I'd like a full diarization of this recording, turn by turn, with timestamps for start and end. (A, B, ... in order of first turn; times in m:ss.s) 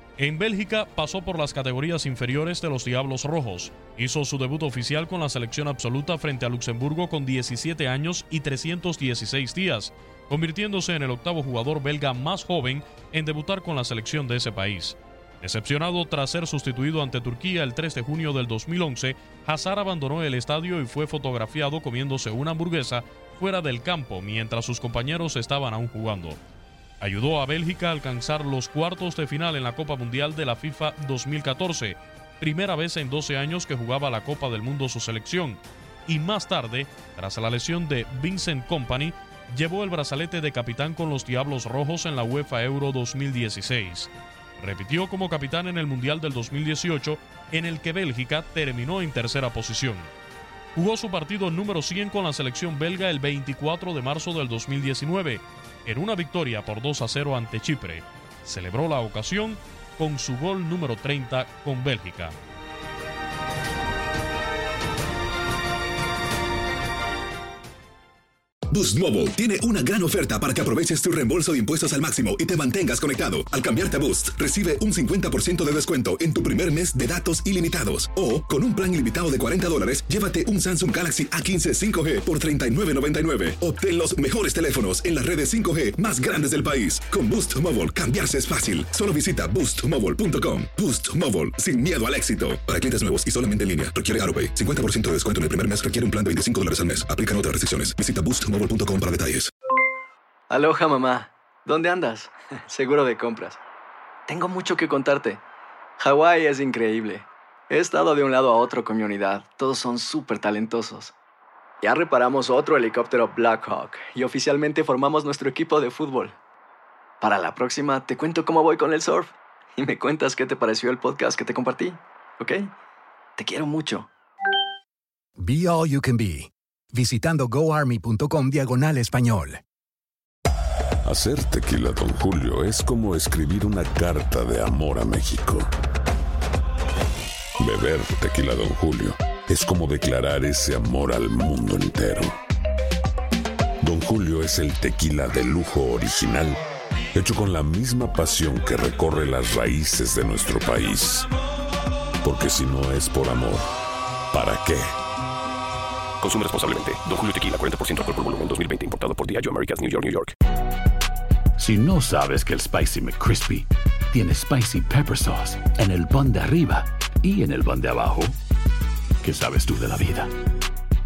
0:00.2-0:26.4 A
0:27.0-0:50.1 A
0:50.8-1:02.4 A
1:08.7-1:39.5 B
1:40.5-1:43.6 C
1:44.3-1:45.4 C
1:46.0-1:51.1 C
1:51.8-1:56.4 C
1:57.2-2:02.7 C
2:03.4-2:04.1 C
2:05.4-2:09.6 D
2:11.0-2:15.7 E
2:17.6-2:22.4 E
2:23.8-2:26.6 E
2:27.1-2:31.3 E
2:32.2-2:33.7 E
2:34.3-2:34.9 E
2:36.2-2:40.3 F
2:41.6-2:48.4 G
2:49.2-2:50.3 G